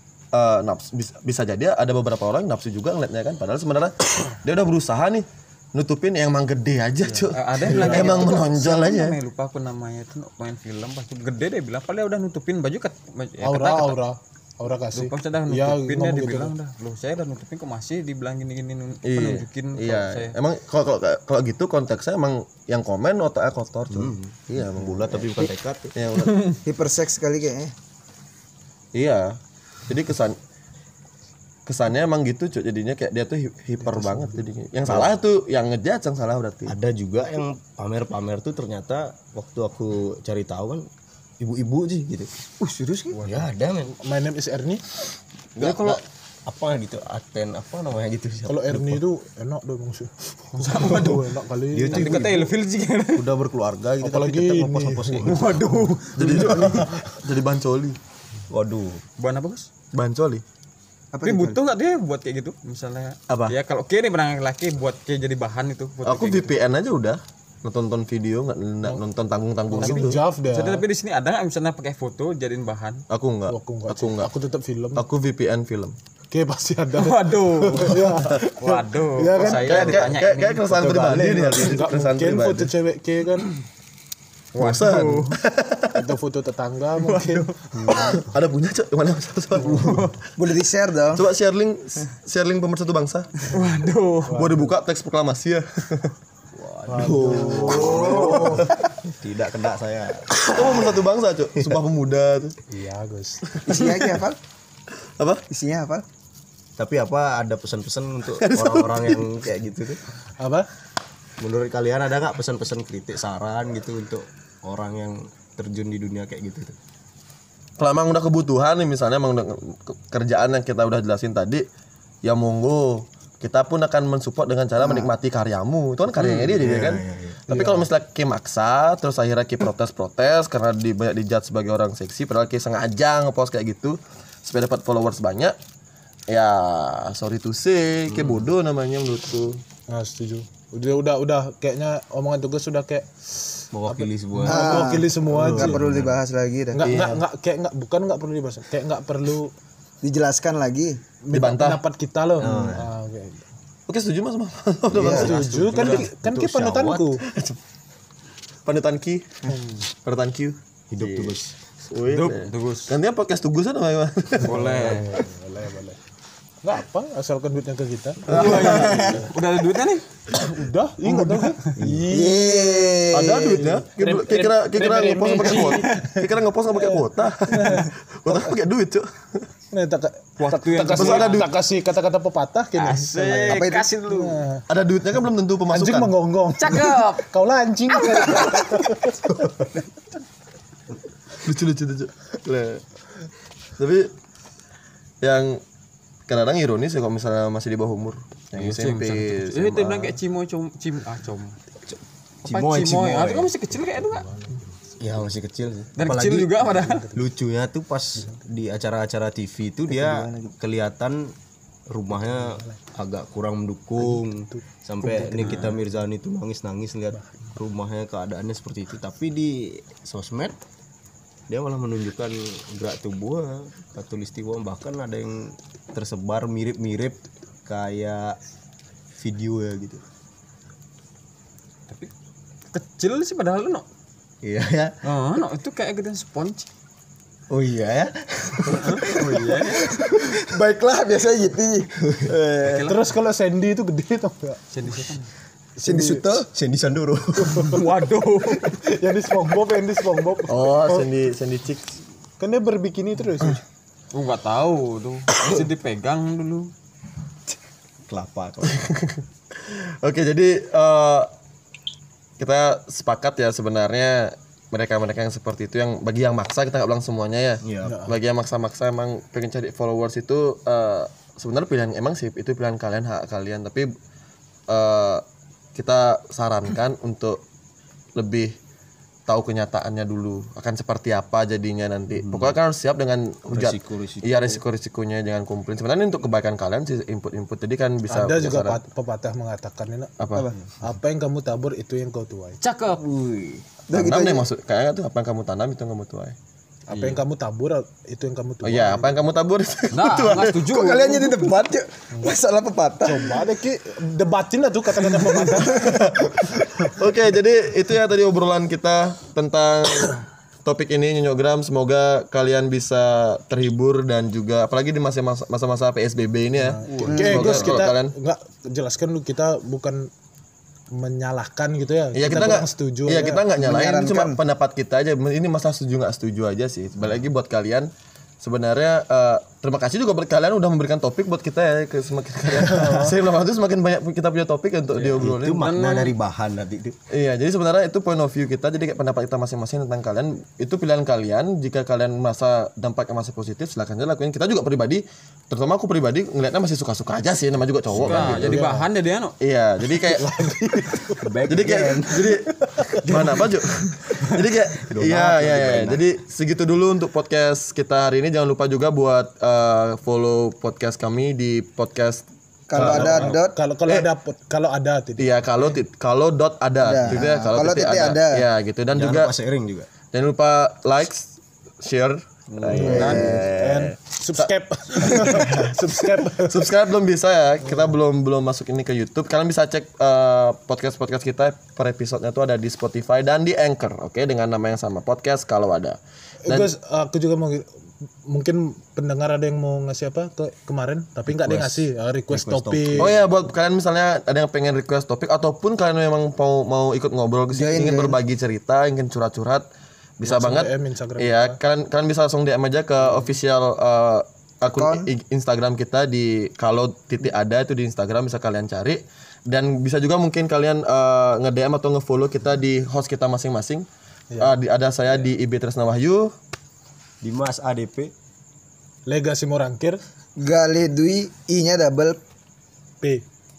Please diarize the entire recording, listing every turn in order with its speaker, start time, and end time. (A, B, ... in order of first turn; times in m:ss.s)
0:00.3-0:09.2 A
0:07.2-0:14.0 B
0:07.6-0:08.3 C
0:13.4-0:16.5 C
0:14.9-0:20.4 B
0:19.0-0:26.6 A
0:23.9-0:26.0 D
0:26.2-0:26.6 B
0:26.6-0:27.7 E
0:29.0-0:30.4 A
0:31.7-0:36.8 A
0:33.9-0:34.4 C
0:34.8-0:35.1 D
0:36.7-0:40.9 D
0:41.4-0:42.3 D
0:42.6-0:43.2 E
0:43.1-0:43.5 B
0:43.2-0:43.9 D
0:43.9-0:44.8 C
0:45.6-0:46.0 B
0:45.6-0:49.0 D
0:48.5-0:52.5 C
0:50.6-0:51.4 B
0:51.7-0:52.5 D
0:51.9-0:53.3 B
0:53.2-0:55.6 D
0:54.0-0:55.4 C
0:55.2-0:56.8 B
0:56.2-0:58.0 A
0:56.2-0:57.2 C
0:58.5-0:59.0 D
0:59.2-0:59.7 B
0:59.9-1:00.4 A
1:01.1-1:01.6 E
1:01.2-1:06.6 B
1:03.3-1:03.6 A
1:06.0-1:10.2 A
1:09.7-1:10.8 C
1:09.7-1:13.0 B
1:13.1-1:14.3 A
1:13.5-1:15.0 C
1:15.0-1:16.0 A
1:16.3-1:20.0 C
1:17.0-1:20.8 B
1:19.4-1:22.7 A
1:20.7-1:21.8 D
1:21.5-1:23.5 C
1:24.6-1:25.4 B
1:24.6-1:26.1 A
1:25.9-1:28.1 C
1:27.0-1:27.5 B
1:27.8-1:28.1 D
1:27.9-1:30.1 A
1:29.7-1:30.2 B
1:30.4-1:31.3 E
1:31.1-1:33.5 A
1:33.5-1:34.5 B
1:34.3-1:34.7 C
1:34.3-1:36.2 A
1:36.5-1:40.9 D
1:36.9-1:38.7 C
1:37.8-1:38.6 B
1:40.4-1:42.6 A
1:42.7-1:43.6 C
1:43.5-1:44.2 A
1:43.7-1:44.4 E
1:45.2-1:45.5 A
1:45.5-1:46.0 E
1:46.8-1:50.0 D
1:48.4-1:49.3 A
1:50.4-1:50.7 C
1:51.4-1:56.8 D
1:57.8-2:01.7 A
2:02.2-2:15.6 A
2:04.8-2:05.1 E
2:06.2-2:07.4 D
2:07.5-2:07.9 C
2:16.3-2:19.6 A
2:18.1-2:18.5 D
2:19.9-2:25.8 C
2:23.7-2:26.2 D
2:24.5-2:27.0 E
2:26.7-2:29.5 C
2:26.8-2:27.2 A
2:30.0-2:31.0 E
2:31.2-2:33.5 C
2:31.3-2:31.8 A
2:32.4-2:32.9 D
2:33.9-2:35.4 A
2:34.9-2:35.4 E
2:35.0-2:37.2 C
2:35.1-2:36.1 B
2:36.0-2:37.2 D
2:37.2-2:37.6 A
2:38.6-2:39.3 A
2:39.9-2:41.4 A
2:40.9-2:41.6 D
2:41.9-2:44.6 A
2:42.1-2:43.0 B
2:44.4-2:45.2 B
2:44.4-2:46.0 C
2:46.6-2:49.3 C
2:48.3-2:49.1 A
2:48.3-2:50.1 B
2:48.6-2:49.3 D
2:50.3-2:53.0 C
2:51.3-2:51.8 B
2:51.8-2:52.3 D
2:52.1-2:53.8 E
2:53.1-2:59.5 A
2:53.9-2:58.5 C
2:55.4-2:56.0 B
2:59.7-3:04.6 C
3:00.4-3:01.4 B
3:00.9-3:01.5 A
3:02.8-3:04.5 B
3:03.2-3:03.9 E
3:04.7-3:06.2 A
3:05.7-3:09.7 C
3:06.6-3:07.3 B
3:07.9-3:08.7 B
3:11.4-3:12.9 A
3:13.8-3:14.1 A
3:15.2-3:15.6 A
3:16.3-3:20.2 A
3:18.6-3:21.6 B
3:21.9-3:23.5 D
3:22.4-3:24.3 B
3:24.3-3:24.6 C
3:25.0-3:31.3 D
3:26.0-3:27.1 B
3:26.7-3:27.2 C
3:29.9-3:30.5 E
3:31.9-3:40.6 D
3:32.3-3:32.8 C
3:34.2-3:35.8 C
3:35.4-3:35.8 B
3:41.5-3:48.4 D
3:49.2-3:50.0 D
3:52.7-3:53.9 B
3:54.4-3:54.9 D
3:55.0-3:56.7 B
3:57.5-4:00.4 D
3:58.7-3:59.9 B
3:59.7-4:01.9 E
4:02.0-4:02.9 D
4:02.6-4:03.1 B
4:02.8-4:05.0 C
4:04.7-4:05.3 B
4:05.8-4:06.2 C
4:05.8-4:06.4 E
4:06.2-4:07.8 D
4:07.4-4:07.8 C
4:07.7-4:08.8 B
4:08.6-4:11.1 C
4:10.5-4:12.0 A
4:12.4-4:13.6 C
4:14.1-4:16.7 B
4:18.1-4:18.9 D
4:18.7-4:21.3 A
4:22.4-4:33.9 A
4:27.6-4:28.0 D
4:27.8-4:28.1 C
4:34.7-4:35.2 A
4:35.8-4:37.4 A
4:38.2-4:38.5 A
4:39.3-4:48.8 A
4:42.1-4:42.6 D
4:43.5-4:44.6 D
4:48.1-4:50.2 C
4:50.2-4:50.5 A
4:50.8-4:52.6 C
4:52.6-4:53.0 B
4:52.9-4:53.6 D
4:53.9-4:54.5 E
4:53.9-4:56.4 A
4:56.9-4:59.3 C
4:56.9-4:57.2 B
4:58.6-5:00.7 A
4:59.9-5:01.5 B
5:00.6-5:03.4 E
5:03.0-5:07.0 C
5:05.6-5:18.1 A
5:16.6-5:20.1 C
5:16.9-5:17.7 D
5:17.1-5:17.6 E
5:20.9-5:23.5 C
5:22.1-5:35.7 A
5:23.5-5:24.4 E
5:32.6-5:33.2 C
5:32.7-5:33.0 D
5:35.0-5:37.0 D
5:35.4-5:36.2 B
5:37.1-5:48.7 A
5:47.9-5:48.6 D
5:47.9-5:49.4 B
5:48.3-5:48.9 C
5:49.4-5:50.3 A
5:49.9-5:51.3 C
5:51.2-5:52.4 D
5:51.5-6:02.2 A
5:52.5-5:53.5 C
5:54.8-5:56.0 D
6:02.7-6:03.6 E
6:02.8-6:04.1 A
6:02.8-6:05.3 C
6:05.2-6:09.3 A
6:06.8-6:08.4 E
6:08.9-6:09.9 D
6:10.1-6:13.4 A
6:12.5-6:14.0 D
6:12.7-6:16.7 C
6:13.0-6:13.5 E
6:14.4-6:26.7 A
6:26.5-6:27.7 C
6:28.3-6:33.2 C
6:31.3-6:33.2 D
6:33.0-6:39.7 A
6:37.5-6:38.2 E
6:40.2-6:53.9 A
6:40.2-6:41.6 C
6:44.7-6:45.1 E
6:54.4-6:56.3 A
6:57.2-6:58.1 D
6:59.1-7:00.0 C
7:00.4-7:02.2 E